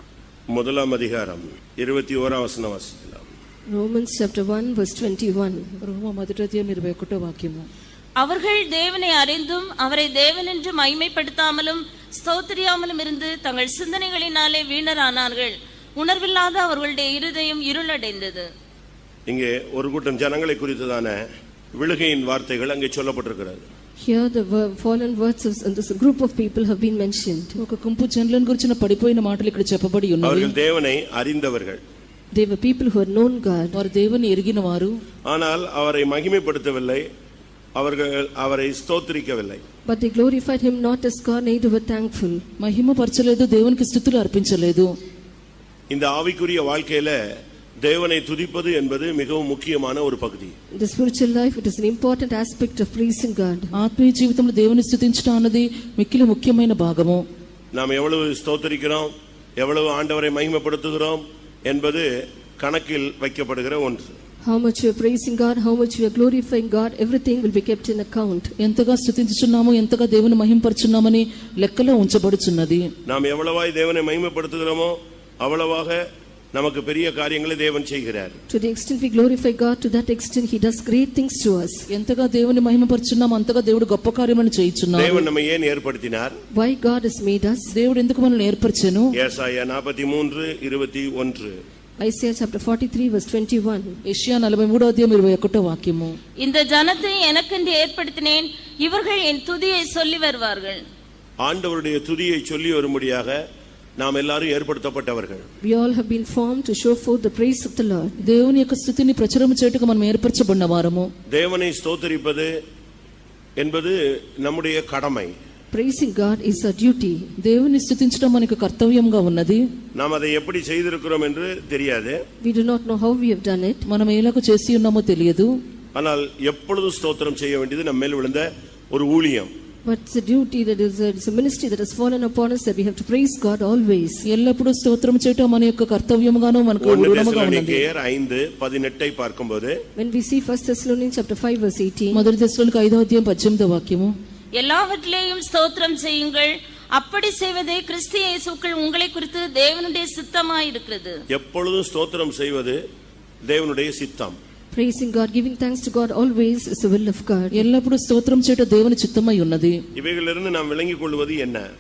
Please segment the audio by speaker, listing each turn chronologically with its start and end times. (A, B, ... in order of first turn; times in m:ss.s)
0:00.5-0:03.3 A
0:03.7-0:05.8 B
0:05.8-0:07.7 C
0:08.2-0:18.5 D
0:19.3-0:21.2 A
0:21.7-0:23.7 A
0:24.0-0:27.6 B
0:27.6-0:30.5 C
0:30.2-0:31.8 A
0:32.3-0:33.8 B
0:33.8-0:35.0 C
0:35.3-0:37.0 A
0:37.8-0:39.6 A
0:39.9-0:42.4 B
0:42.6-0:45.0 C
0:45.9-0:47.2 A
0:47.8-0:50.5 A
0:50.8-0:53.8 B
0:53.8-0:57.3 C
0:57.7-1:02.1 A
1:02.6-1:04.2 A
1:04.4-1:08.5 B
1:08.6-1:12.9 C
1:13.1-1:16.0 A
1:16.5-1:18.4 A
1:18.5-1:21.9 B
1:21.9-1:25.3 C
1:24.9-1:26.3 A
1:26.5-1:27.7 B
1:27.7-1:29.1 C
1:29.2-1:31.6 A
1:32.0-1:34.0 B
1:34.1-1:36.2 C
1:36.4-1:40.8 D
1:41.4-1:43.4 A
1:44.0-1:45.5 A
1:45.6-1:48.2 B
1:48.2-1:51.1 C
1:51.3-1:52.5 A
1:53.6-1:55.3 A
1:55.7-1:57.3 B
1:57.4-1:59.6 C
2:00.0-2:02.2 A
2:02.4-2:03.8 B
2:03.9-2:05.5 C
2:06.0-2:09.5 A
2:09.8-2:14.2 B
2:14.3-2:17.8 C
2:16.8-2:19.8 A
2:20.0-2:22.2 B
2:22.1-2:24.2 C
2:24.6-2:31.2 D
2:31.3-2:32.8 A
2:33.4-2:34.4 A
2:34.7-2:37.7 B
2:37.6-2:39.8 C
2:40.0-2:41.7 A